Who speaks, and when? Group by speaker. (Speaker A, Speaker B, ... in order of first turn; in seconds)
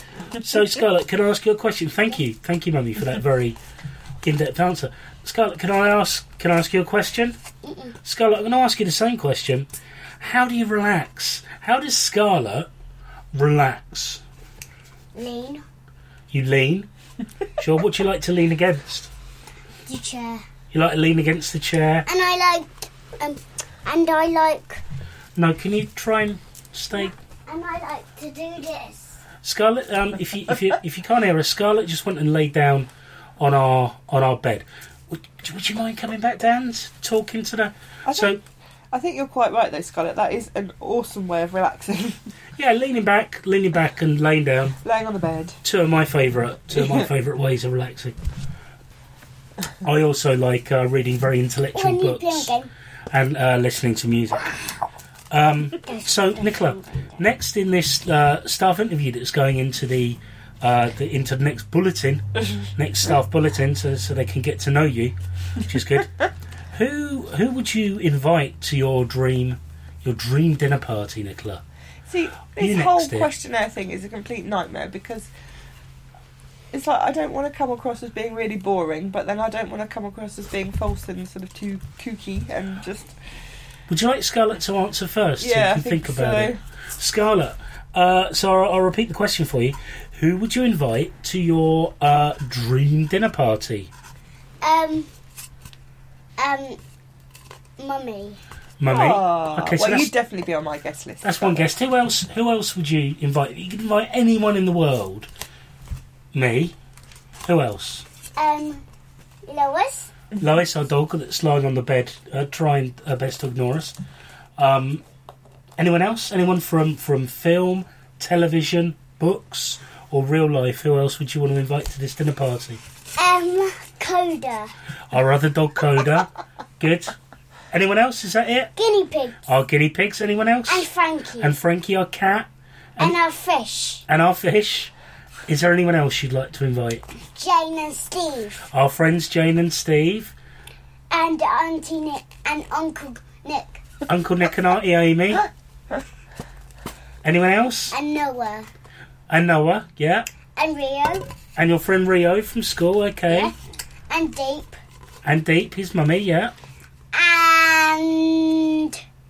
Speaker A: 0.3-3.6, 4.2-7.4, 8.0-9.7, 10.2-12.7, 13.3-14.2, 16.3-16.9, 17.6-19.1, 20.7-22.1, 25.4-27.1, 29.4-38.4, 42.6-44.8, 45.6-48.2, 49.8-52.5, 53.1-54.8, 55.3-71.6, 72.6-73.3, 83.9-93.9, 98.8-100.1, 101.2-105.3, 106.3-106.8, 107.5-108.0, 110.4-114.0, 114.6-115.0, 115.8-122.8, 125.1-127.2, 127.7-128.7, 129.5-130.9, 131.4-133.2, 134.1-134.9, 135.5-137.0, 138.7-140.3, 144.1-145.5, 147.2-148.0, 149.3-150.3, 151.6-153.5, 155.2-156.6
Speaker B: 7.6-8.0, 15.2-15.6, 19.9-20.4, 22.1-24.8, 27.0-29.2, 51.8-52.7, 55.8-57.2, 94.6-95.1, 96.4-96.8, 97.8-98.4, 108.4-108.8, 109.5-110.1, 123.2-124.7, 128.8-129.4, 130.7-131.5, 133.0-134.1, 137.4-138.7, 141.1-143.8, 147.9-148.7, 150.6-151.3, 154.1-154.8, 157.1-159.0
Speaker C: 38.1-38.4, 38.9-42.3, 44.8-45.6, 46.7-47.1, 72.1-75.3, 76.7-83.2, 85.4-86.6, 98.9-101.7